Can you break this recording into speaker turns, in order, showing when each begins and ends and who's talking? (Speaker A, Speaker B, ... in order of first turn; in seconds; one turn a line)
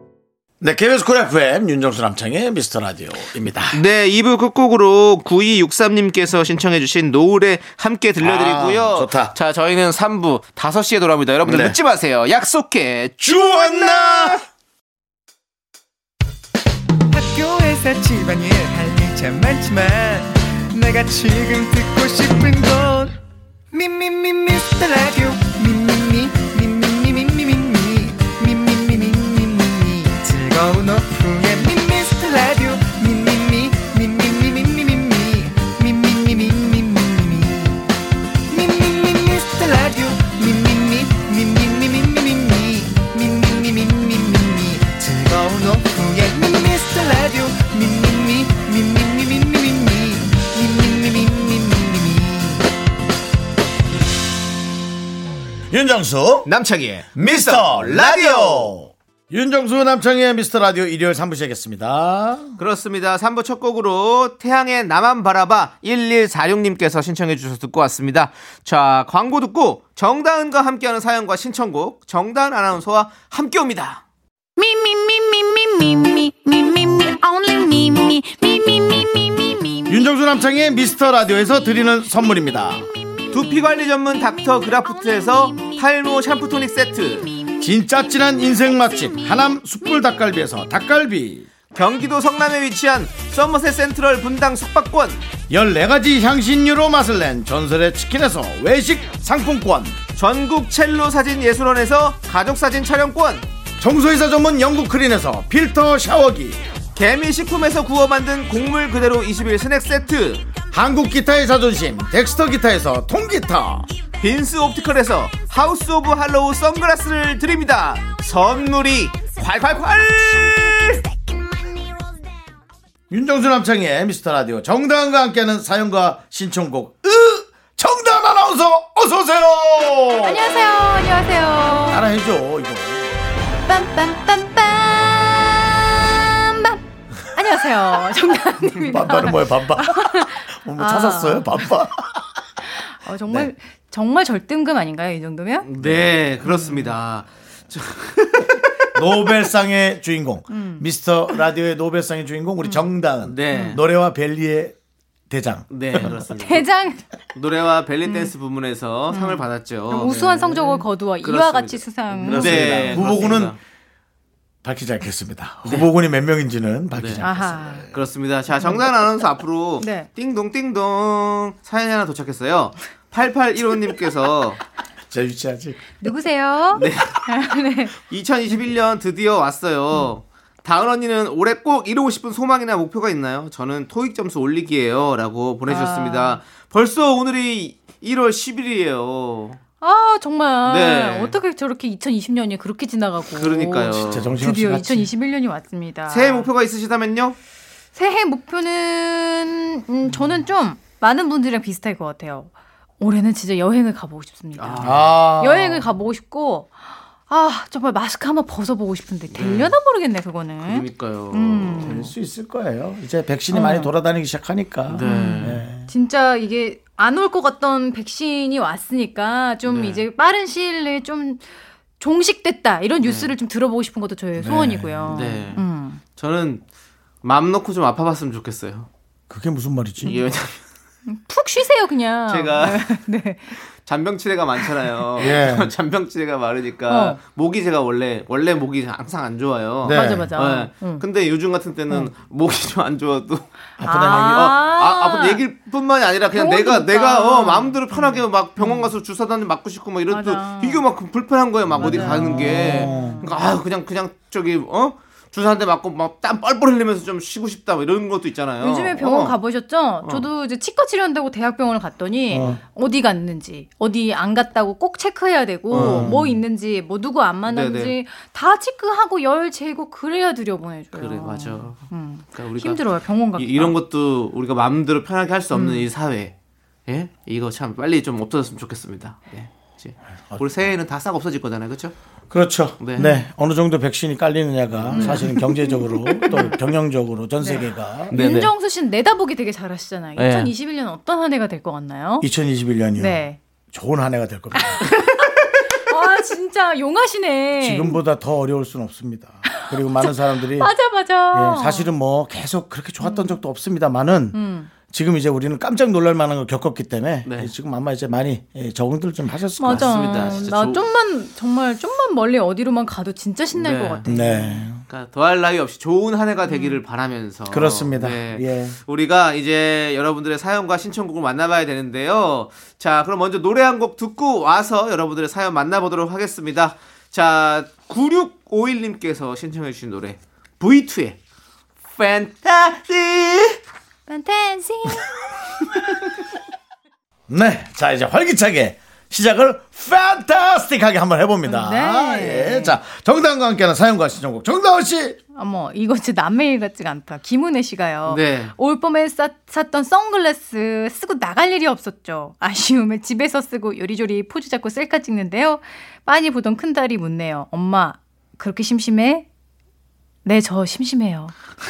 Speaker A: 0.6-3.8
Speaker B: 3.7-14.4
Speaker A: 8.2-9.3
Speaker A: 11.4-11.8
Speaker A: 13.2-14.4
Speaker C: 17.1-23.1
Speaker C: 23.7-37.8
Speaker C: 38.5-52.6
Speaker A: 55.7-56.5
Speaker B: 56.5-58.7
Speaker A: 57.1-62.5
Speaker B: 62.6-74.0
Speaker D: 74.6-79.9
Speaker A: 79.9-82.8
Speaker B: 83.3-87.3
Speaker A: 87.6-91.5
Speaker B: 91.7-95.2
Speaker A: 95.5-100.0
Speaker B: 100.2-103.5
Speaker A: 103.8-106.6
Speaker B: 107.0-110.5
Speaker A: 110.7-113.9
Speaker B: 114.2-121.1
Speaker A: 123.1-130.5
Speaker E: 130.2-132.1
Speaker A: 131.9-133.1
Speaker E: 133.7-136.8
Speaker E: 137.3-141.6
Speaker A: 138.7-142.2
Speaker E: 142.8-145.7
Speaker B: 145.6-148.7
Speaker A: 145.8-146.1
Speaker E: 146.4-146.9
Speaker A: 148.9-154.7
Speaker E: 150.5-150.8
Speaker B: 153.2-153.8
Speaker E: 153.5-153.8
Speaker A: 155.3-156.2
Speaker B: 155.7-156.7
Speaker E: 156.3-157.0
Speaker B: 157.3-163.6
Speaker E: 158.1-158.3
Speaker E: 159.1-163.1
Speaker A: 162.2-163.6
Speaker A: 164.6-167.9
Speaker B: 166.9-167.2
Speaker E: 167.2-167.9
Speaker B: 167.9-174.6
Speaker E: 169.8-170.1
Speaker A: 175.1-176.0
Speaker E: 176.0-177.9
Speaker B: 176.7-177.2
Speaker B: 177.9-189.6
Speaker E: 185.7-186.4
Speaker E: 189.8-196.5
Speaker B: 190.6-191.3
Speaker B: 193.4-194.3
Speaker A: 193.9-195.1
Speaker B: 196.1-197.4
Speaker E: 197.9-206.7
Speaker B: 204.6-205.3
Speaker A: 204.8-205.8
Speaker E: 207.3-212.1
Speaker B: 209.3-209.7
Speaker B: 210.6-212.1
Speaker A: 211.8-215.9
Speaker E: 213.5-213.9
Speaker B: 214.9-215.6
Speaker E: 215.0-221.4
Speaker B: 219.6-220.0
Speaker E: 222.0-226.0
Speaker B: 223.0-223.3
Speaker A: 224.4-225.4
Speaker B: 225.1-225.6
Speaker B: 226.1-226.6
Speaker B: 227.2-228.9
Speaker A: 229.3-230.2
Speaker B: 230.0-230.6
Speaker E: 231.1-233.6
Speaker B: 232.3-232.9
Speaker B: 233.8-243.5
Speaker A: 235.2-235.7
Speaker E: 236.9-237.2
Speaker A: 239.8-240.3
Speaker E: 239.9-241.0
Speaker A: 243.8-244.6
Speaker E: 243.8-245.4
Speaker B: 244.2-259.4
Speaker E: 246.3-248.9
Speaker E: 250.1-250.8
Speaker A: 251.8-253.2
Speaker E: 251.8-253.3
Speaker E: 258.6-273.7
Speaker A: 262.3-262.6
Speaker B: 265.7-266.2
Speaker A: 265.7-266.4
Speaker B: 267.5-267.9
Speaker B: 270.9-272.8
Speaker B: 273.4-276.3
Speaker E: 275.5-275.9
Speaker B: 276.9-281.9
Speaker A: 282.3-288.1
Speaker B: 282.8-283.1
Speaker E: 283.0-283.2
Speaker B: 284.8-285.2
Speaker E: 284.9-286.6
Speaker E: 287.4-292.3
Speaker B: 288.1-288.5
Speaker B: 290.2-290.5
Speaker A: 292.2-295.1
Speaker E: 293.0-293.4
Speaker E: 294.6-298.0
Speaker A: 297.6-300.7
Speaker E: 299.5-301.9
Speaker A: 301.3-310.4
Speaker E: 303.0-303.4
Speaker E: 304.3-304.7
Speaker B: 307.2-307.5
Speaker E: 309.6-314.6
Speaker B: 309.7-310.8
Speaker B: 313.5-314.1
Speaker A: 314.1-314.8
Speaker B: 314.9-331.2
Speaker E: 316.5-316.8
Speaker A: 317.5-318.8
Speaker B: 331.9-333.6
Speaker E: 334.1-335.1
Speaker A: 337.3-345.2
Speaker E: 341.4-342.8
Speaker E: 345.3-359.2
Speaker B: 348.1-348.5
Speaker E: 360.2-361.3